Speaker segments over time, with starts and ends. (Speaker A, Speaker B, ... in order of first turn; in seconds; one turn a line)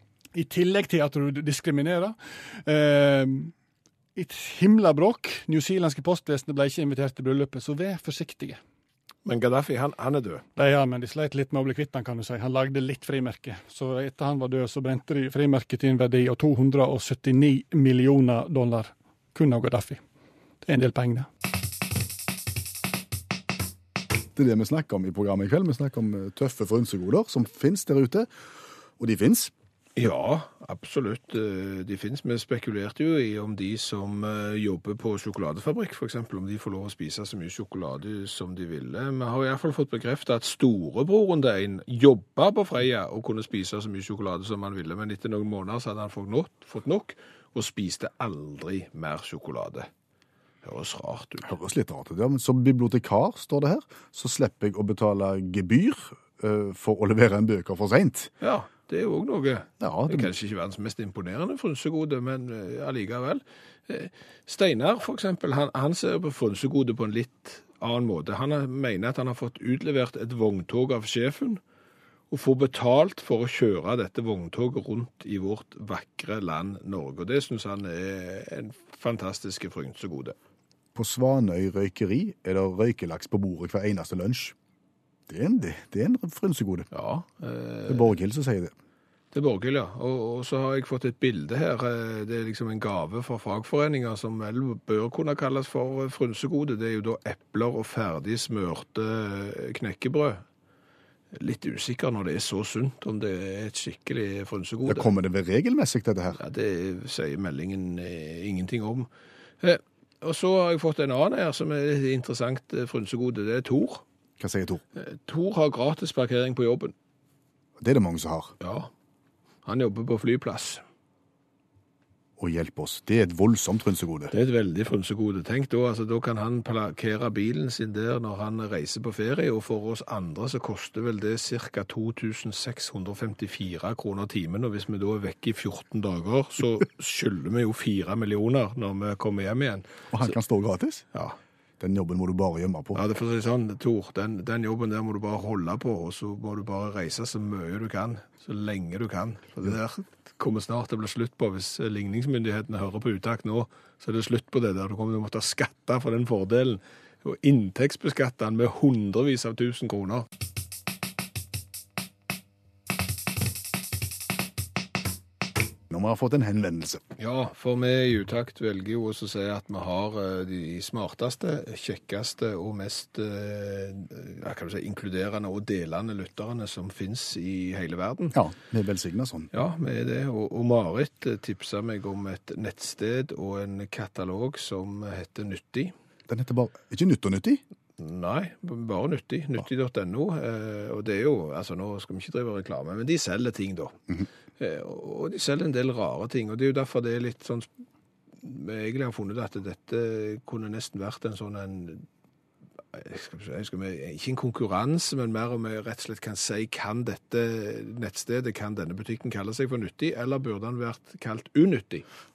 Speaker A: 0.3-3.5
Speaker A: 4.2-8.6
Speaker B: 9.2-10.4
Speaker A: 10.6-20.0
Speaker A: 20.6-21.3
Speaker C: 24.3-28.3
Speaker C: 29.0-29.5
Speaker B: 29.9-49.9
Speaker B: 50.6-51.5
Speaker C: 51.4-58.3
Speaker B: 58.4-71.6
Speaker C: 59.8-60.3
Speaker B: 72.3-80.3
Speaker C: 80.9-84.5
Speaker C: 85.3-86.9
Speaker B: 86.9-88.1
Speaker C: 87.9-88.7
Speaker B: 89.3-100.4
Speaker B: 101.3-105.1
Speaker C: 104.8-106.4
Speaker B: 106.4-109.1
Speaker B: 109.6-114.0
Speaker C: 114.4-114.8
Speaker B: 115.0-116.9
Speaker C: 117.8-118.5
Speaker B: 118.6-118.9
Speaker B: 119.6-120.8
Speaker C: 122.4-124.3
Speaker B: 124.3-140.3
Speaker C: 140.1-141.1
Speaker C: 141.8-143.0
Speaker B: 142.9-160.3
Speaker C: 165.9-167.0
Speaker B: 167.2-178.4
Speaker C: 178.3-179.5
Speaker B: 179.5-185.9
Speaker C: 186.3-187.6
Speaker B: 188.0-194.0
Speaker B: 194.6-197.7
Speaker B: 198.4-202.0
Speaker B: 202.9-212.0